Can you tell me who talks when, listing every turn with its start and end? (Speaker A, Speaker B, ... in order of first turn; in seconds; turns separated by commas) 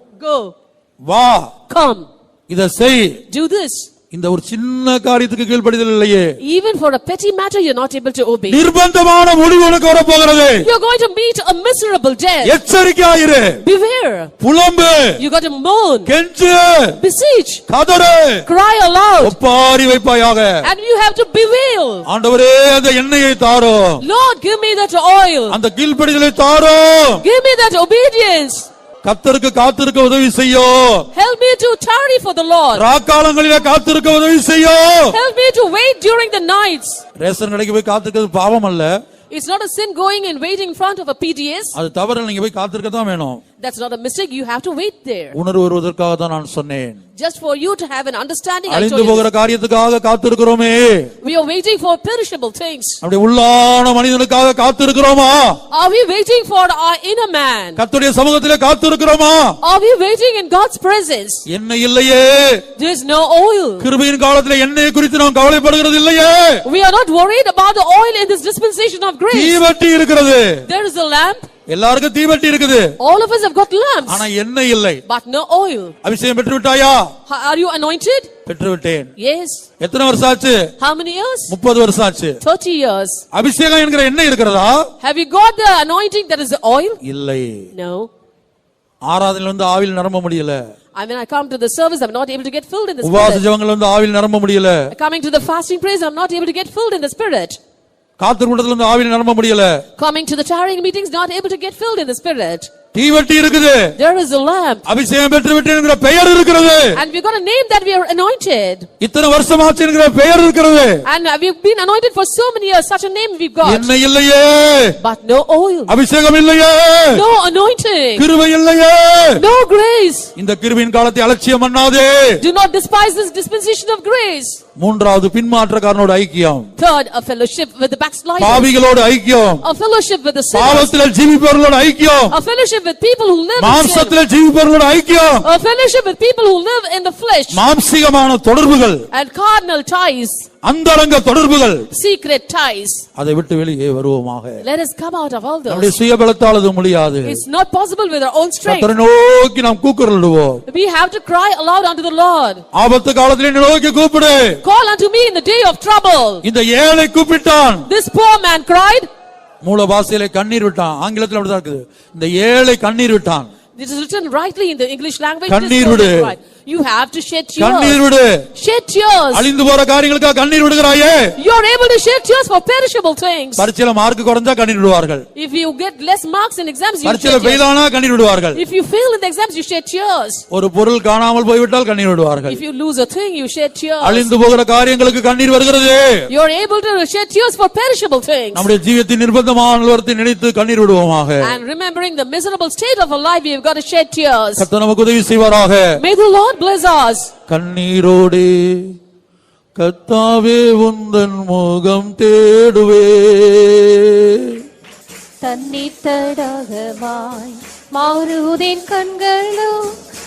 Speaker A: 0.2-0.5, Speaker B: 1.1-1.5, Speaker A: 1.7-2.1, Speaker B: 2.5-3.2, Speaker A: 3.3-3.9, Speaker B: 4.1-6.3, Speaker A: 6.4-8.6, Speaker B: 8.5-10.7, Speaker A: 10.6-12.6, Speaker B: 12.4-13.6, Speaker A: 13.6-14.3, Speaker B: 14.4-15.2, Speaker A: 15.2-16.1, Speaker B: 16.1-17.0, Speaker A: 17.0-17.6, Speaker B: 17.7-18.5, Speaker A: 18.4-19.4, Speaker B: 19.2-20.7, Speaker A: 20.6-22.1, Speaker B: 22.1-24.0, Speaker A: 24.0-25.6, Speaker B: 25.5-27.2, Speaker A: 27.2-28.7, Speaker B: 29.0-31.1, Speaker A: 31.1-32.9, Speaker B: 32.7-35.2, Speaker A: 35.1-37.0, Speaker B: 37.2-39.0, Speaker A: 39.3-41.7, Speaker B: 41.8-43.4, Speaker A: 43.6-45.4, Speaker B: 45.3-47.0, Speaker A: 47.2-49.3, Speaker B: 48.7-51.1, Speaker A: 51.2-53.0, Speaker B: 53.0-55.6, Speaker A: 55.7-57.8, Speaker B: 57.8-59.6, Speaker A: 59.6-61.5, Speaker B: 61.5-62.6, Speaker A: 62.8-63.9, Speaker B: 63.8-66.6, Speaker A: 66.7-69.6, Speaker B: 69.3-70.7, Speaker A: 70.7-71.5, Speaker B: 71.7-73.0, Speaker A: 73.0-74.3, Speaker B: 74.1-75.0, Speaker A: 75.1-76.0, Speaker B: 76.0-77.1, Speaker A: 77.3-78.3, Speaker B: 78.5-79.1, Speaker A: 79.2-79.7, Speaker B: 79.8-80.7, Speaker A: 80.8-81.5, Speaker B: 81.5-82.4, Speaker A: 82.4-83.2, Speaker B: 83.3-84.9, Speaker A: 85.0-87.0, Speaker B: 87.0-87.7, Speaker A: 87.7-88.1, Speaker B: 89.1-90.7, Speaker A: 91.0-93.5, Speaker B: 93.0-94.9, Speaker A: 94.9-97.6, Speaker B: 98.2-99.8, Speaker A: 100.0-102.7, Speaker B: 102.9-103.9, Speaker A: 104.0-104.9, Speaker B: 104.9-107.0, Speaker A: 106.9-108.9, Speaker B: 109.0-111.0, Speaker A: 111.0-113.9, Speaker B: 113.6-115.0, Speaker A: 115.0-115.9, Speaker B: 115.9-117.2, Speaker A: 117.1-118.3, Speaker B: 118.2-119.4, Speaker A: 119.4-120.3, Speaker B: 120.4-122.4, Speaker A: 122.4-124.6, Speaker B: 124.8-126.7, Speaker A: 126.8-128.7, Speaker B: 128.4-129.6, Speaker A: 129.6-130.9, Speaker B: 130.5-132.4, Speaker A: 132.3-134.2, Speaker B: 133.6-135.5, Speaker A: 135.4-137.6, Speaker B: 137.5-139.1, Speaker A: 139.1-140.5, Speaker B: 140.6-141.9, Speaker A: 141.9-143.1, Speaker B: 143.2-144.6, Speaker A: 144.6-146.0, Speaker B: 145.7-147.4, Speaker A: 147.2-148.9, Speaker B: 148.7-150.6, Speaker A: 150.7-152.6, Speaker B: 152.7-154.6, Speaker A: 154.6-156.4, Speaker B: 156.4-157.9, Speaker A: 157.9-159.1, Speaker B: 159.6-163.5, Speaker A: 163.8-168.0, Speaker B: 165.5-166.3, Speaker B: 167.6-168.4, Speaker A: 168.6-169.5, Speaker B: 169.3-171.3, Speaker A: 171.4-173.7, Speaker B: 173.6-175.2, Speaker A: 175.4-177.7, Speaker B: 177.0-178.6, Speaker A: 178.6-180.4, Speaker B: 180.5-182.6, Speaker A: 182.5-184.3, Speaker B: 184.0-186.3, Speaker A: 186.3-188.7, Speaker B: 188.5-191.6, Speaker A: 191.4-194.7, Speaker B: 194.6-196.0, Speaker A: 196.0-197.3, Speaker B: 197.5-198.9, Speaker B: 199.8-204.6, Speaker C: 205.4-209.9